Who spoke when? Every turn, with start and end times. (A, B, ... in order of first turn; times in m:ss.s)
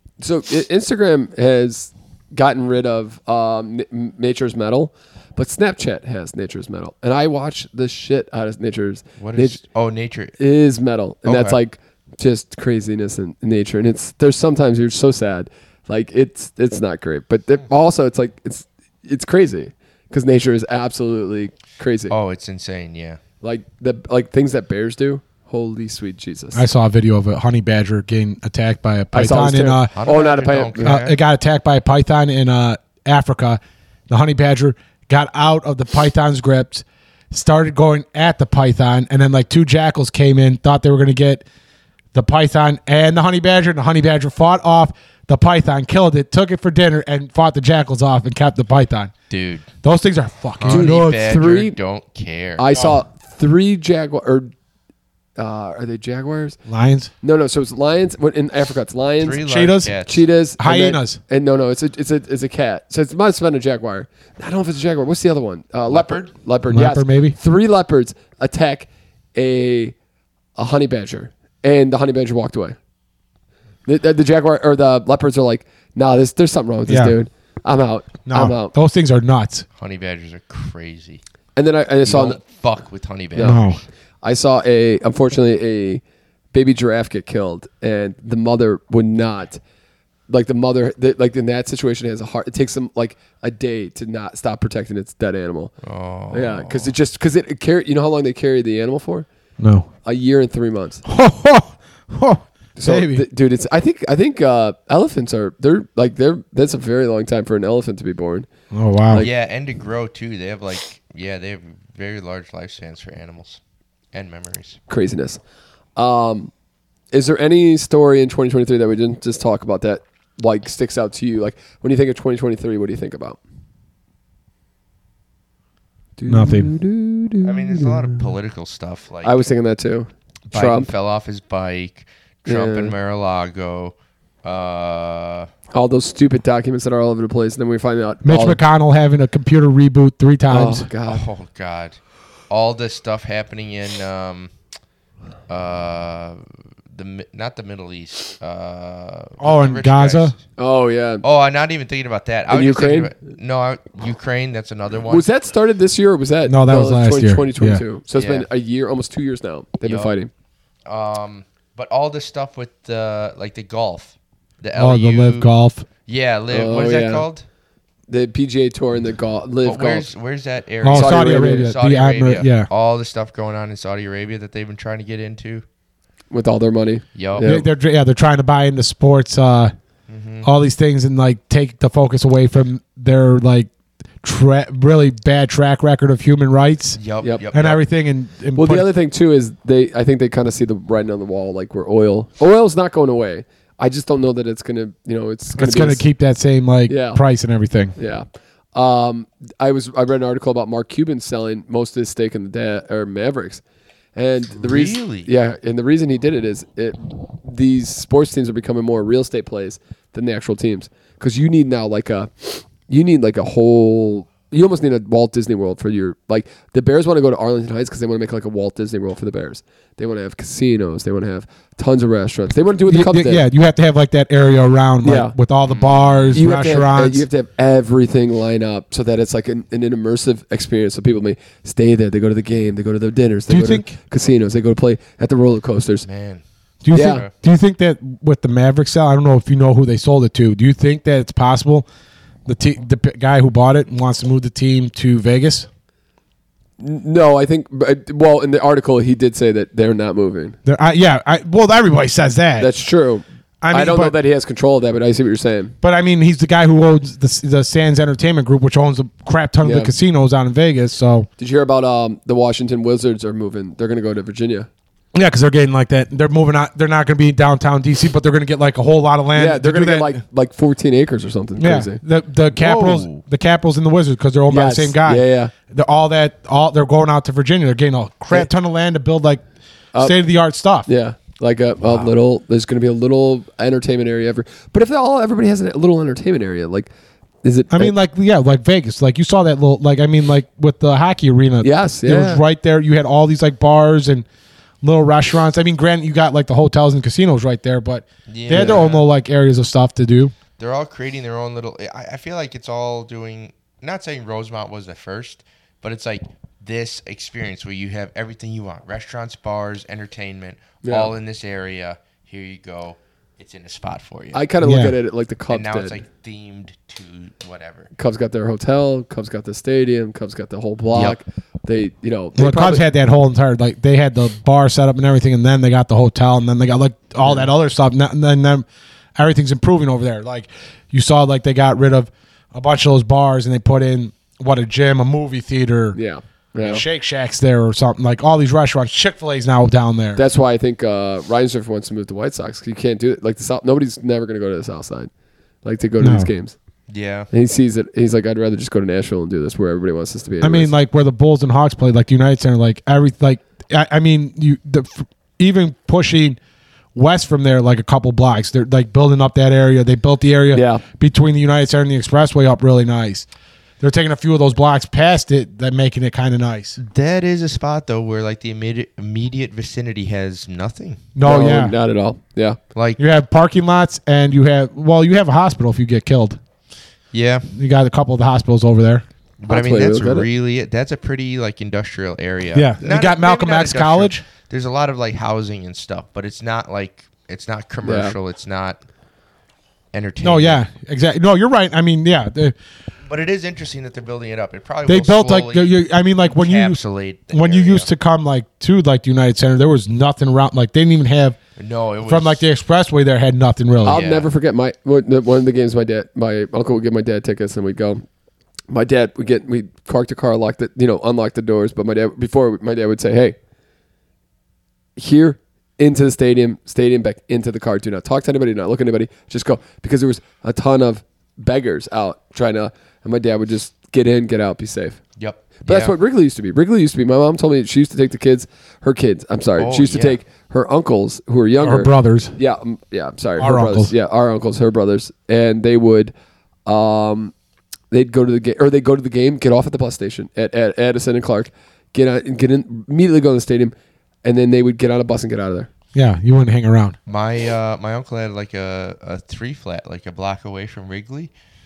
0:00.2-0:09.6 A
0:09.2-0:10.4 B
0:10.4-0:22.1 A
0:11.2-0:11.6 B
0:22.1-0:23.2 B
0:23.4-0:26.6 A
0:26.5-0:29.9 C
0:29.1-0:31.0 A
0:30.0-0:31.2 B
0:30.8-0:41.4 C
0:42.1-0:49.1 C
0:49.3-0:49.6 B
0:49.8-0:51.2 C
0:50.6-0:52.8 B
0:50.7-0:51.8 A
0:52.6-0:54.5 A
0:55.4-0:56.6 A
0:56.7-0:57.1 C
0:57.2-0:59.4 A
0:59.2-1:00.2 B
0:59.4-1:00.0 C
1:00.0-1:09.9 A
1:00.6-1:01.2 C
1:05.9-1:06.3 B
1:06.7-1:07.4 C
1:10.6-1:12.8 A
1:13.8-1:18.7 A
1:16.9-1:17.2 C
1:18.2-1:19.6 C
1:19.8-1:21.2 B
1:21.6-1:22.4 A
1:22.0-1:23.8 B
1:23.3-1:23.6 A
1:23.4-1:23.8 C
1:24.2-1:26.0 A
1:26.5-1:29.6 A
1:30.3-1:35.7 A
1:35.8-1:36.9 B
1:36.3-1:39.3 A
1:39.6-1:39.9 C
1:40.0-1:41.0 A
1:41.0-1:43.2 C
1:42.8-1:48.5 A
1:48.7-1:49.2 C
1:49.2-1:53.6 B
1:54.1-1:54.8 B
1:54.9-1:55.4 A
1:56.0-1:56.5 A
1:57.1-2:03.4 A
2:06.2-2:08.2 A
2:06.3-2:06.7 C
2:07.4-2:09.4 B
2:09.2-2:10.9 A
2:10.5-2:15.5 B
2:12.4-2:12.9 A
2:15.7-2:18.6 A
2:18.2-2:20.9 C
2:20.5-2:21.2 A
2:21.1-2:22.0 B
2:22.5-2:24.5 B
2:25.5-2:26.4 B
2:26.9-2:30.4 B
2:29.4-2:30.3 C
2:30.6-2:31.2 A
2:31.2-2:35.2 B
2:32.5-2:33.1 A
2:35.1-2:40.3 A
2:36.5-2:37.8 C
2:38.2-2:38.4 B
2:39.8-2:40.1 B
2:40.8-2:45.5 B
2:44.8-2:45.8 C
2:46.0-2:47.4 B
2:46.5-2:47.2 A
2:48.1-2:50.1 A
2:49.6-2:55.6 B
2:50.8-2:52.7 C
2:50.9-2:51.7 A
2:56.3-2:57.6 A
2:57.2-2:57.5 B
2:57.4-2:59.7 C
3:00.1-3:00.5 B
3:00.4-3:03.7 C
3:04.2-3:07.0 C
3:07.0-3:07.8 B
3:07.5-3:08.9 C
3:08.5-3:16.0 A
3:15.6-3:17.9 C
3:16.9-3:17.2 A
3:18.0-3:23.6 A
3:24.1-3:43.4 A
3:24.6-3:25.3 B
3:42.9-3:47.2 C
3:45.0-3:45.3 A
3:45.6-3:46.4 B
3:46.3-3:56.0 A
3:53.5-3:53.9 C
3:56.0-3:56.4 B
3:56.8-4:01.8 C
3:56.9-3:57.2 A
3:56.9-3:57.3 B
4:02.4-4:05.7 C
4:06.8-4:10.6 A
4:10.6-4:12.7 C
4:12.6-4:15.7 A
4:13.6-4:14.1 C
4:15.8-4:21.3 C
4:19.6-4:19.9 A
4:21.4-4:24.7 A
4:25.1-4:30.2 C
4:29.3-4:32.0 A
4:31.6-4:39.4 C
4:32.5-4:33.2 B
4:34.5-4:35.5 A
4:40.0-4:40.9 C
4:40.8-4:46.9 A
4:41.8-4:42.1 B
4:47.4-4:47.9 A
4:47.7-4:54.2 C
4:51.6-4:52.4 A
4:54.8-5:00.3 C
4:58.3-4:59.0 B
4:58.5-4:58.8 A
5:00.6-5:14.4 B
5:10.8-5:11.1 A
5:14.3-5:16.0 A
5:14.6-5:14.9 C
5:15.5-5:17.9 B
5:18.0-5:22.8 A
5:22.4-5:36.0 C
5:35.9-5:36.8 A
5:36.6-5:40.2 C
5:40.2-5:45.1 A
5:45.6-5:46.6 A
5:46.0-5:46.3 C
5:46.9-5:47.3 B
5:47.3-5:50.7 A
5:50.4-5:56.4 C
5:56.9-6:03.3 C
6:00.5-6:00.8 A
6:03.8-6:06.8 C
6:06.8-6:11.1 B
6:11.1-6:11.7 C
6:11.2-6:12.6 A
6:13.0-6:16.4 C
6:17.1-6:17.5 B
6:17.5-6:19.0 C
6:19.4-6:28.8 B
6:19.5-6:20.3 A
6:22.5-6:24.2 C
6:27.8-6:28.1 A
6:29.9-6:30.6 B
6:30.2-6:32.5 C
6:33.0-6:35.7 B
6:34.9-6:36.8 C
6:36.2-6:37.9 B
6:37.3-6:41.4 C
6:41.6-6:42.4 B
6:42.1-6:44.0 C
6:43.8-6:48.0 A
6:43.8-6:44.3 B
6:48.7-6:53.4 A
6:55.0-7:05.0 A
7:05.2-7:05.9 B
7:05.6-7:16.1 A
7:09.6-7:10.2 B
7:11.6-7:12.3 C
7:13.4-7:13.9 C
7:16.6-7:17.3 A
7:17.9-7:25.7 A
7:25.9-7:26.9 C
7:27.1-7:31.3 B